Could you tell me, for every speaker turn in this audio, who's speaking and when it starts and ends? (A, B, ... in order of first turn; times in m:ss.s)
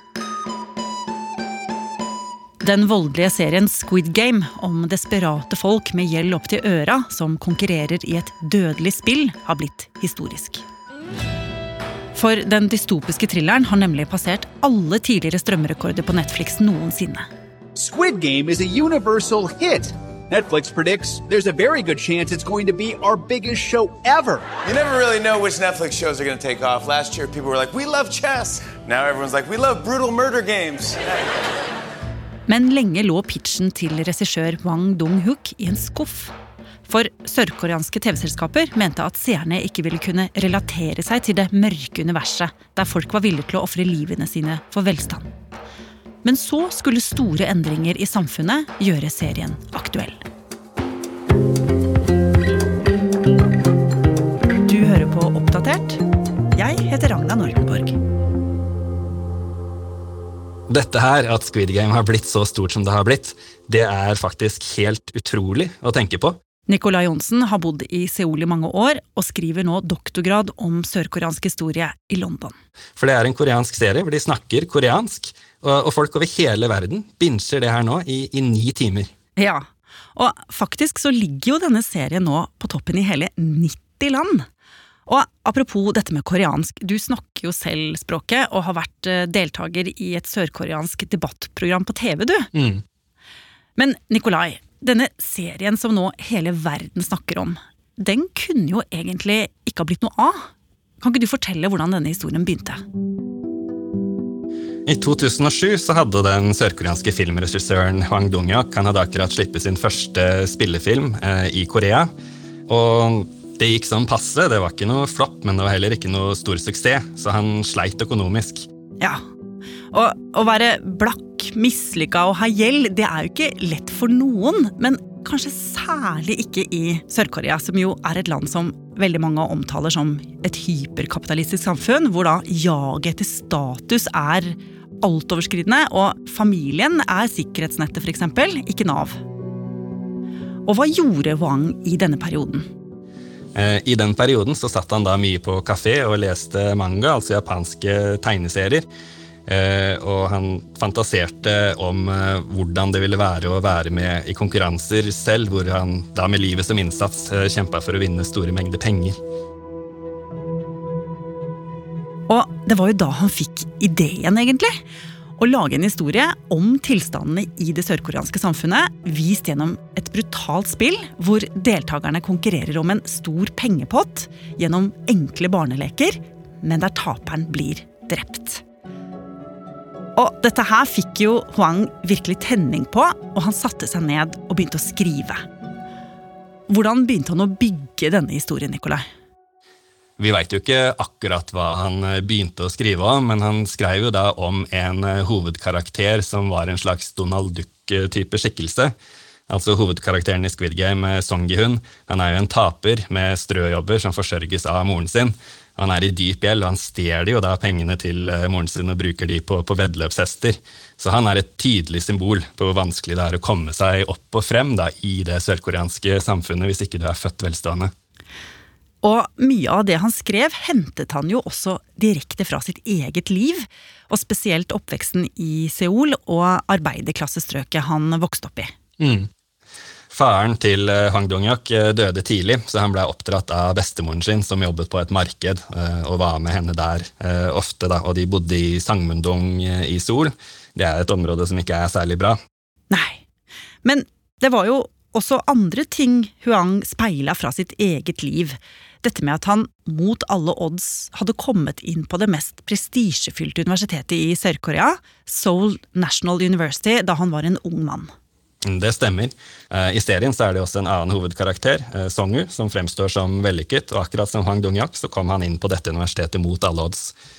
0:02.6-0:10.6 A
0:12.1-0:17.3 A
0:17.8-0:24.4 B
0:25.3-0:27.3 C
0:28.4-0:28.9 C
0:32.5-0:36.3 A
0:36.8-0:45.3 A
0:46.2-0:50.2 A
0:54.6-0:56.0 A
0:56.5-0:58.0 A
1:00.7-1:06.4 D
1:06.7-1:12.6 A
1:13.0-1:19.1 D
1:19.4-1:24.5 A
1:25.1-1:32.5 A
1:32.5-1:32.8 D
1:33.8-1:40.5 A
1:41.0-1:42.8 A
1:44.8-1:52.1 D
1:52.7-1:58.6 D
1:59.9-2:19.2 A
2:20.6-2:22.7 A
2:23.5-2:28.8 D
2:29.5-2:39.1 D
2:42.3-2:44.8 A
2:45.4-2:58.6 A
3:00.1-3:05.4 A
3:06.7-3:09.0 A
3:10.2-3:18.9 D
3:19.5-3:37.9 D
3:39.0-3:48.7 A
3:49.0-3:49.3 D
3:50.1-4:02.4 D
4:02.9-4:03.2 A
4:03.8-4:18.1 A
4:18.6-4:27.1 D